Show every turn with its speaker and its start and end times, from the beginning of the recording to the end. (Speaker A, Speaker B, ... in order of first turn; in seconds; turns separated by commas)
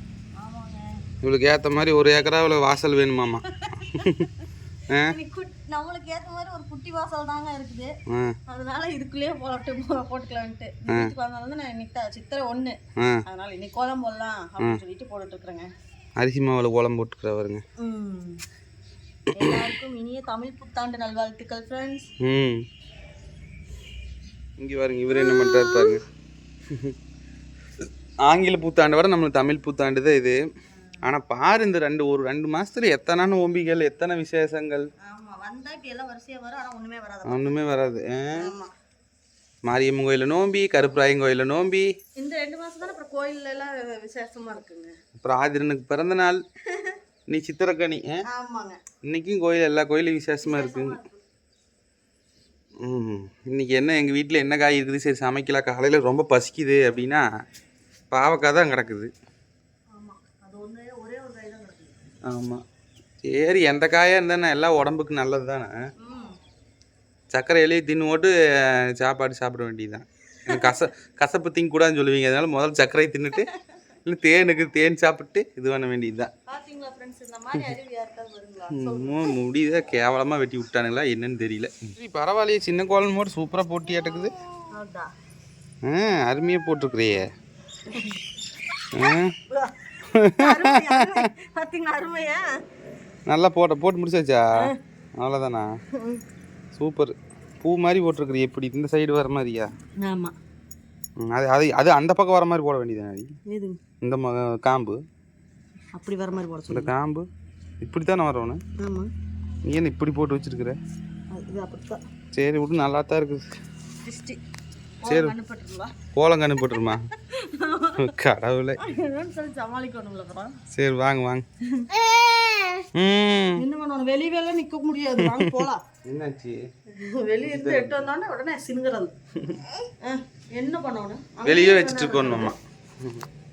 Speaker A: 0.4-0.9, Speaker B: 1.2-4.3, Speaker A: 3.7-4.3, Speaker A: 5.0-7.9, Speaker B: 8.1-8.3, Speaker A: 8.5-15.7, Speaker B: 13.0-13.2, Speaker B: 16.2-17.6, Speaker A: 17.8-18.4, Speaker A: 19.3-22.1, Speaker B: 22.2-22.6, Speaker B: 24.6-26.0, Speaker A: 25.1-25.9, Speaker B: 28.2-30.4, Speaker B: 31.0-34.9, Speaker A: 35.0-37.6, Speaker B: 37.2-38.5, Speaker A: 38.4-38.7, Speaker B: 39.6-41.9, Speaker A: 42.2-44.9, Speaker B: 45.2-46.4, Speaker A: 46.7-47.0, Speaker B: 47.3-48.2, Speaker A: 48.2-48.8, Speaker B: 49.0-51.0, Speaker A: 50.4-51.2, Speaker B: 52.8-57.2, Speaker B: 58.1-59.1, Speaker A: 59.9-62.1, Speaker B: 62.2-62.6, Speaker B: 63.2-65.7, Speaker A: 66.0-66.4, Speaker B: 67.3-73.5, Speaker A: 70.5-70.7, Speaker B: 74.0-76.3, Speaker A: 76.5-79.3, Speaker B: 78.7-84.3, Speaker A: 84.7-85.1, Speaker B: 85.8-87.3, Speaker A: 87.9-88.2, Speaker B: 88.9-89.3, Speaker A: 89.1-89.7, Speaker B: 90.1-91.2, Speaker A: 90.4-92.5, Speaker B: 93.3-95.7, Speaker A: 95.9-96.2, Speaker B: 96.7-99.7, Speaker A: 100.0-100.3, Speaker B: 101.2-103.3, Speaker A: 103.5-103.8, Speaker B: 104.0-105.0, Speaker A: 106.0-106.9, Speaker B: 106.7-107.2, Speaker B: 107.8-108.6, Speaker A: 108.8-109.1, Speaker B: 109.7-110.8, Speaker A: 111.3-112.0, Speaker B: 112.3-113.5, Speaker A: 114.0-114.4, Speaker A: 115.0-115.9, Speaker B: 115.1-115.3, Speaker B: 116.1-117.0, Speaker A: 116.9-118.1, Speaker B: 118.0-118.8, Speaker A: 118.8-120.6, Speaker B: 120.7-121.4, Speaker A: 121.7-122.0, Speaker B: 122.9-123.6, Speaker A: 123.6-125.8, Speaker B: 125.2-126.6, Speaker A: 126.9-129.1, Speaker B: 127.4-128.1, Speaker A: 130.0-132.5, Speaker B: 131.4-133.2